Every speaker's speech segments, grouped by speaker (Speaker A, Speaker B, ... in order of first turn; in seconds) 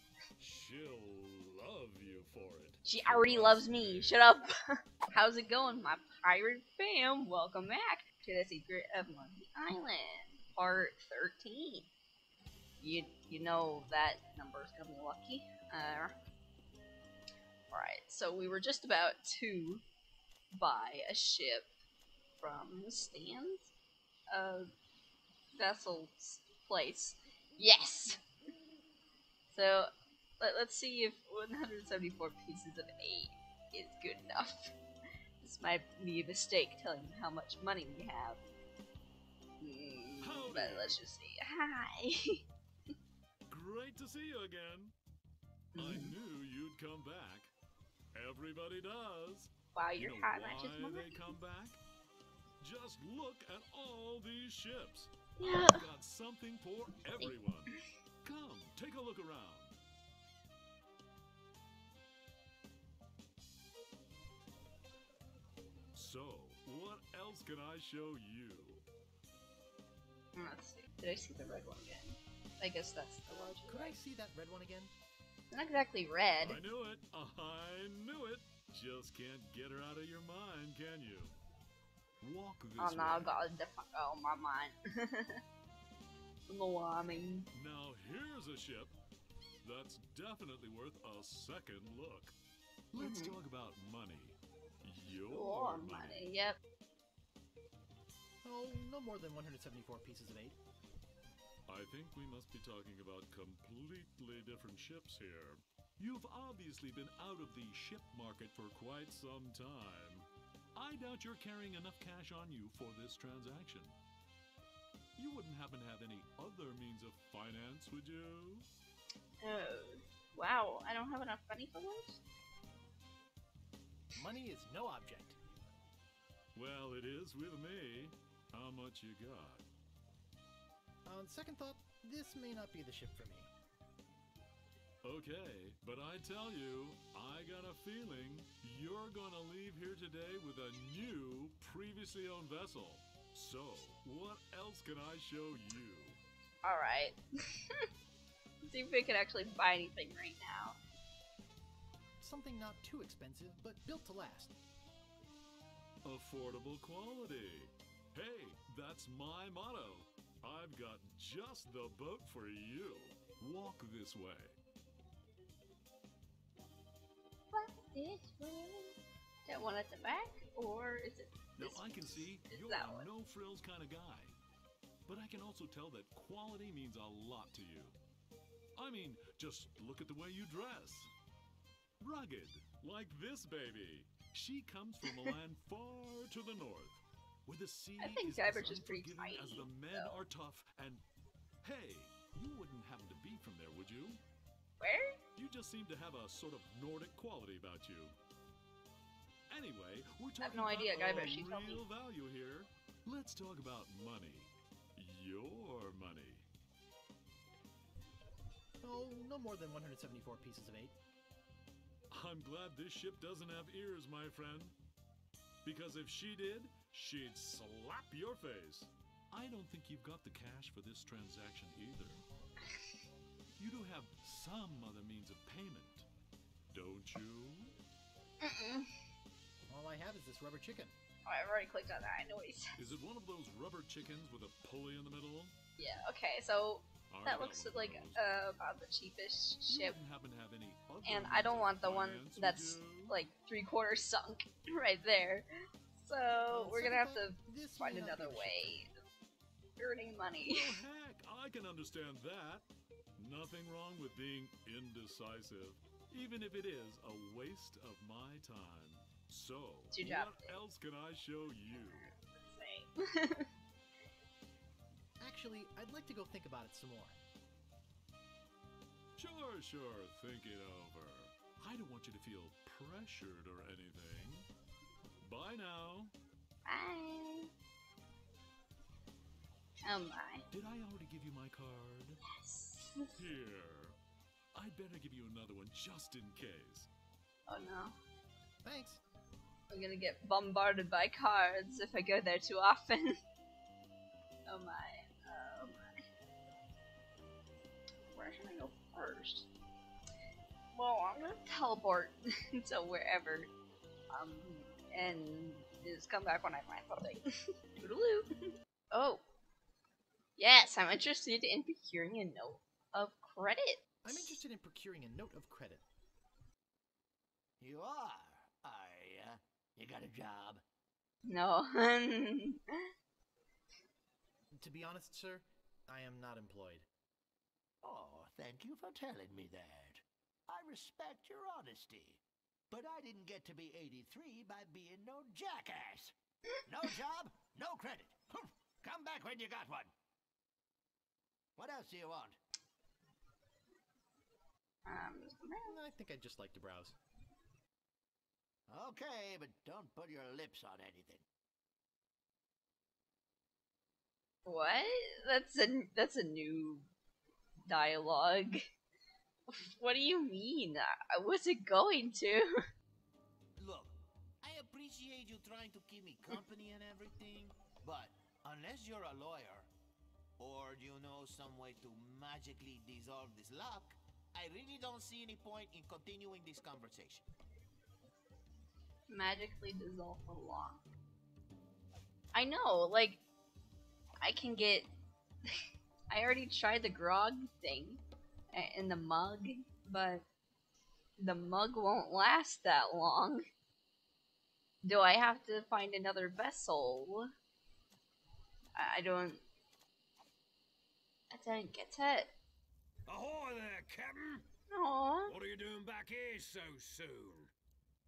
Speaker A: 0.4-4.2, 40.2-41.0, 43.5-44.9, 45.8-47.5, 48.1-51.8, 52.6-57.7, 58.2-59.8, 65.9-68.8, 76.4-81.4, 82.2-83.4, 87.5-88.9, 89.6-92.3, 92.9-96.3, 101.7-114.0, 115.2-118.7, 126.5-129.7, 135.0-146.2, 156.0-164.6, 171.6-174.4, 175.1-178.0, 178.8-181.1, 182.0-191.0, 191.6-194.2, 195.3-198.2, 199.5-206.4, 212.1-214.8, 215.6-222.2, 223.6-226.1, 226.7-227.7, 232.8-235.5, 237.1-238.2, 239.7-243.2, 250.4-252.6, 253.2-262.1, 269.2-274.5, 275.2-276.1, 280.5-282.2, 283.1-283.9, 284.5-286.9
Speaker B: 2.8-11.9, 12.8-16.1, 17.7-19.8, 20.5-21.7, 22.4-23.7, 24.3-24.7, 25.6-28.2, 29.5-34.7, 35.4-38.4, 39.6-42.4, 45.7-46.1, 49.7-51.3, 55.4-55.8, 70.3-73.9, 75.5-76.6, 82.8-85.4, 86.5-87.5, 93.0-93.3, 95.3-96.6, 119.4-122.2, 146.6-147.8, 148.6-150.8, 167.5-173.1, 188.0-190.2, 194.8-195.2, 200.4-201.8, 228.4-228.9, 231.2-232.8, 235.8-240.0, 241.0-248.9, 249.8-250.8, 259.9-260.6, 261.7-263.5, 276.6-277.5, 279.8-280.4, 282.4-283.2, 287.5-287.9, 289.7-293.2, 294.4-296.0, 298.1-299.5, 300.7-303.5, 304.1-307.3, 307.8-308.3, 308.9-309.2, 310.4-314.4, 321.2-322.9, 344.9-345.8, 354.4-356.9, 357.7-358.6, 359.5-362.6, 379.1-380.8, 382.3-383.2, 384.2-384.9, 386.1-390.2, 391.2-393.4, 394.8-397.3, 398.8-399.4, 401.3-402.3, 404.7-405.4
Speaker C: 73.3-74.9, 98.4-100.6, 124.1-125.4, 131.1-133.5, 152.2-154.6, 208.8-210.9, 229.7-230.9, 246.5-248.9, 265.2-267.2, 288.6-289.0, 314.0-315.8, 324.6-326.9, 345.6-346.9
Speaker D: 317.6-320.6, 327.8-336.1, 336.7-339.9, 341.6-342.4, 348.7-351.2
Speaker E: 363.6-369.7, 370.4-377.2
Speaker F: 403.1-404.4, 405.2-407.5